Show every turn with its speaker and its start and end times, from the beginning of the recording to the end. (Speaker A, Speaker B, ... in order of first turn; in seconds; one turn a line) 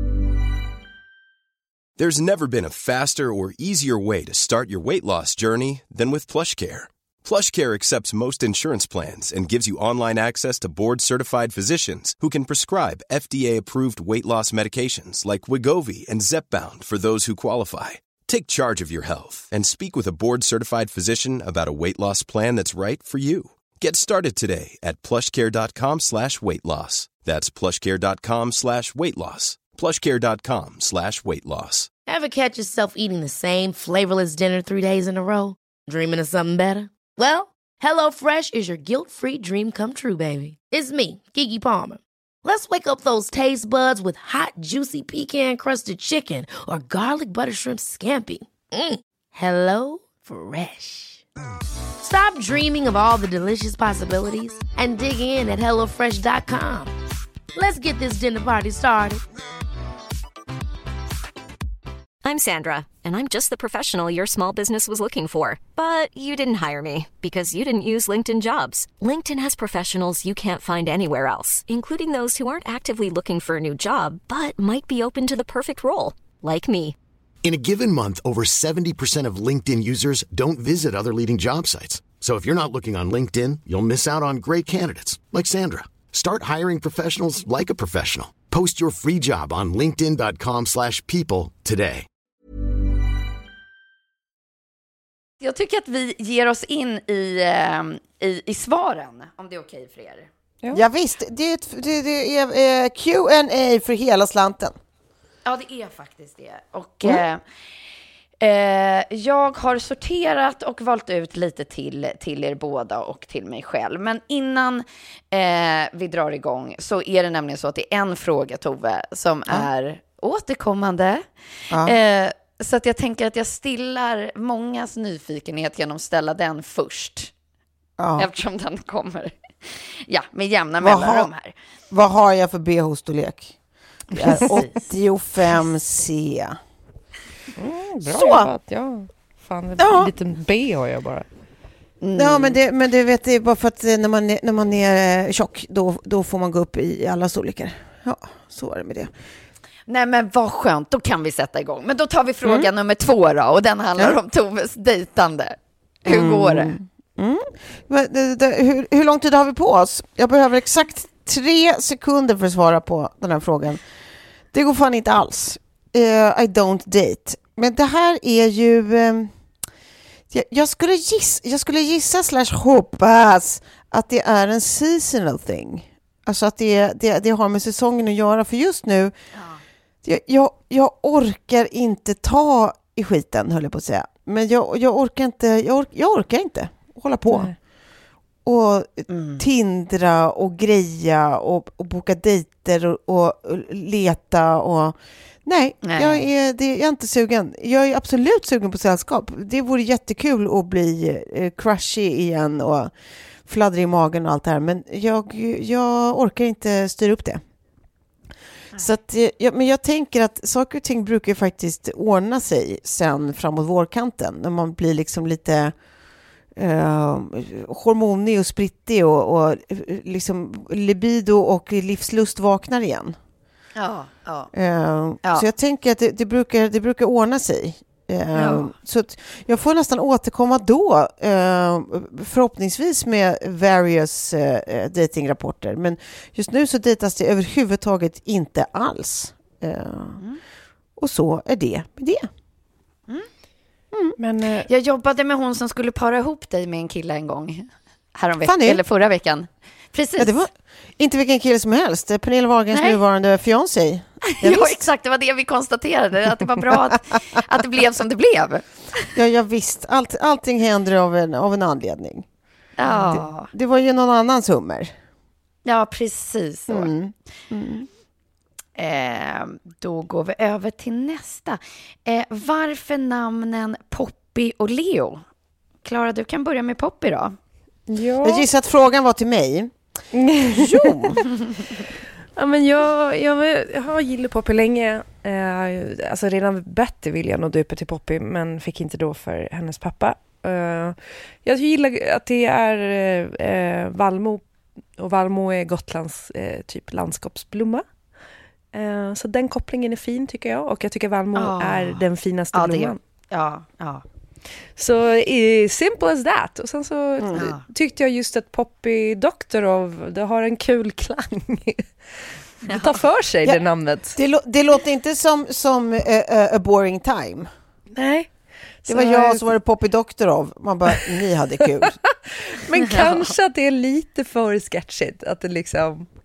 Speaker A: 2.0-31.9
Speaker B: 32.0-51.2
Speaker B: 52.0-56.9
Speaker B: 57.5-59.2
Speaker C: 62.2-77.0
Speaker D: 77.4-92.0
Speaker E: 95.4-100.3
Speaker F: 100.7-104.7
Speaker E: 105.4-107.4
Speaker E: 108.4-121.3
Speaker E: 121.8-127.3
Speaker F: 128.0-128.3
Speaker E: 128.2-131.5
Speaker F: 130.8-131.3
Speaker F: 131.9-133.6
Speaker E: 134.1-134.8
Speaker F: 134.1-136.6
Speaker G: 137.6-141.2
Speaker F: 138.0-138.5
Speaker F: 139.8-140.1
Speaker E: 142.0-142.6
Speaker F: 142.2-149.1
Speaker E: 149.9-156.7
Speaker F: 152.4-152.7
Speaker F: 156.1-163.8
Speaker F: 164.5-169.3
Speaker F: 170.3-179.1
Speaker E: 179.3-179.6
Speaker F: 180.0-187.5
Speaker G: 187.3-187.5
Speaker F: 188.4-202.9
Speaker E: 189.1-189.4
Speaker E: 195.8-196.2
Speaker F: 203.4-207.4
Speaker F: 208.7-215.7
Speaker F: 216.6-223.2
Speaker E: 223.8-224.5
Speaker F: 224.5-240.2
Speaker E: 228.3-228.7
Speaker F: 241.0-242.3
Speaker F: 243.9-244.2
Speaker G: 244.2-244.7
Speaker E: 244.7-250.4
Speaker F: 248.4-248.8
Speaker F: 250.2-254.9
Speaker E: 252.7-253.0
Speaker E: 254.2-258.7
Speaker F: 259.1-262.2
Speaker E: 262.8-263.5
Speaker F: 263.0-264.9
Speaker E: 265.6-266.9
Speaker F: 266.7-267.9
Speaker E: 268.8-275.2
Speaker E: 275.8-277.4
Speaker G: 277.9-278.5
Speaker F: 278.2-279.8
Speaker G: 280.1-280.8
Speaker F: 280.5-281.2
Speaker G: 282.4-294.4
Speaker G: 295.0-297.8
Speaker G: 298.7-303.0
Speaker E: 301.3-304.0
Speaker G: 304.8-314.2
Speaker F: 307.2-307.4
Speaker E: 307.3-307.6
Speaker F: 314.1-317.5
Speaker G: 317.9-318.3
Speaker G: 318.8-319.4
Speaker F: 318.9-322.0
Speaker G: 321.9-326.1